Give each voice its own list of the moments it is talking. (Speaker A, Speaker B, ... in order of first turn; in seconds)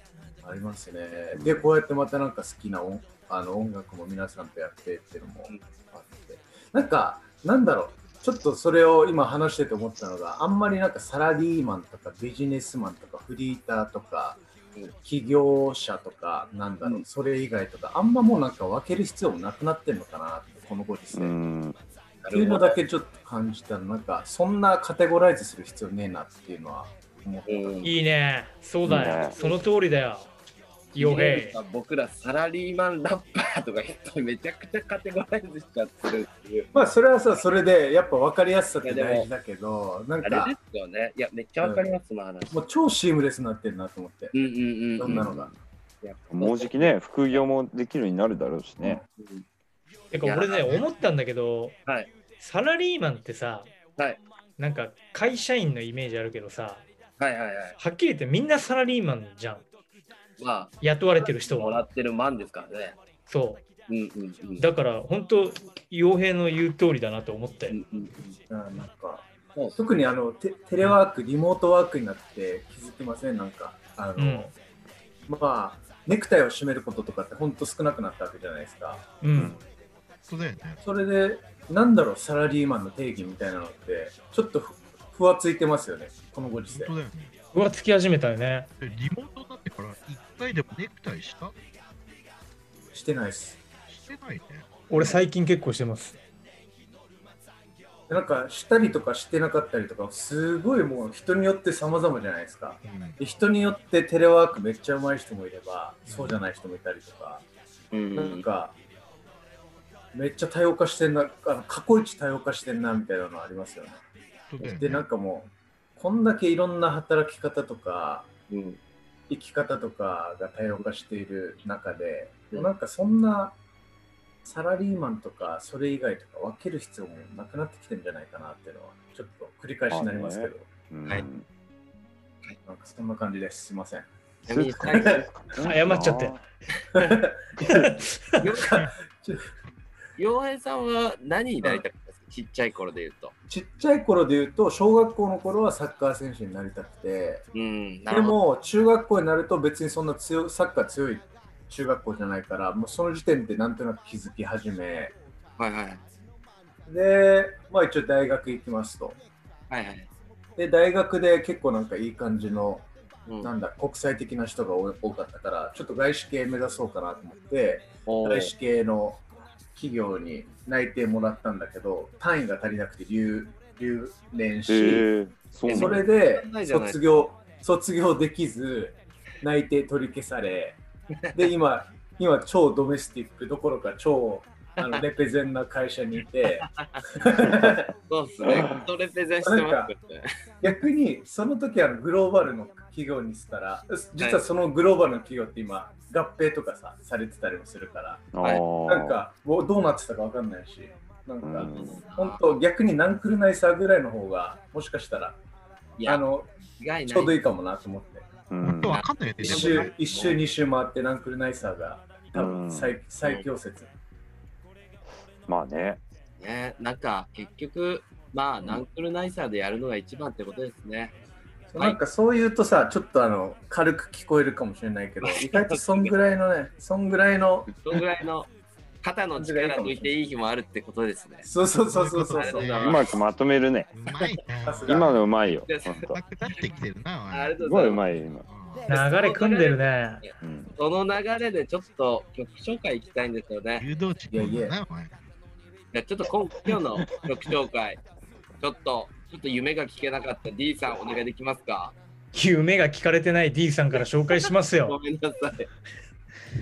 Speaker A: 0.4-14.4, 15.0-21.4, 22.3-27.8, 36.7-40.5, 42.5-44.3, 45.0-45.5, 68.5-74.5, 75.3-79.1, 80.8-86.9, 92.9-93.6, 95.0-95.2, 98.1-107.4, 108.1-108.8, 110.1-114.0, 114.6-118.3, 119.3-123.6, 124.4-130.7, 132.7-134.1, 134.8-135.1, 136.9-137.8, 138.5-139.4, 143.5-147.4, 148.1-155.1, 156.8-159.2, 160.6-162.9, 163.4-175.1, 175.7-180.8, 181.3-187.9, 189.4-189.9, 190.6-198.3, 198.8-205.4, 206.0-206.5, 207.1-208.3, 209.4-213.9, 221.7-227.7, 229.4-230.1, 231.4-233.1, 234.7-235.1, 244.3-244.7
Speaker B: 1.3-1.7, 21.1-21.8, 28.8-29.4, 45.1-45.3, 46.3-49.0, 129.9-131.4, 134.5-136.4, 137.6-137.9, 174.7-176.1, 188.5-188.8, 198.3-199.2, 201.4-202.0, 208.5-209.0, 212.3-212.9, 215.5-216.0, 232.8-233.9, 234.9-236.2, 237.6-238.4, 240.4-240.7
Speaker C: 22.2-22.8, 27.5-27.9, 30.9-36.7, 38.8-39.3, 40.2-42.6, 44.3-45.5, 46.0-47.4, 49.2-49.4, 50.2-50.8, 57.2-57.8, 60.4-63.0, 63.9-64.6, 67.7-68.4, 107.9-108.4, 118.5-118.8, 134.5-135.2, 138.4-138.7, 140.2-143.3, 147.5-148.4, 155.6-156.0, 159.7-160.1, 168.1-168.5, 175.7-177.2, 186.6-187.0, 188.1-190.3, 201.6-202.4, 206.0-206.2, 206.8-207.3, 208.9-210.4, 216.4-221.1, 225.2-226.1, 227.8-228.5, 229.0-231.5, 232.3-233.0, 235.7-236.1, 237.3-238.0, 238.9-243.8, 245.9-248.0, 248.6-251.9, 253.9-255.7
Speaker D: 27.8-30.3, 30.9-31.6, 50.1-51.8, 52.4-53.7, 54.6-56.8, 57.8-59.6, 60.8-61.9, 63.3-63.6, 64.6-67.8, 74.2-74.5, 79.2-79.6, 87.5-88.7, 94.9-96.2, 135.6-136.4, 137.7-138.4, 238.9-240.2, 252.3-254.9
Speaker E: 80.3-80.8, 86.7-87.3, 88.8-91.5, 93.9-94.7, 102.8-103.2, 106.1-106.4, 114.5-115.1, 208.6-209.9, 231.9-233.0, 233.9-235.3, 236.1-237.6, 238.4-238.8, 243.8-245.2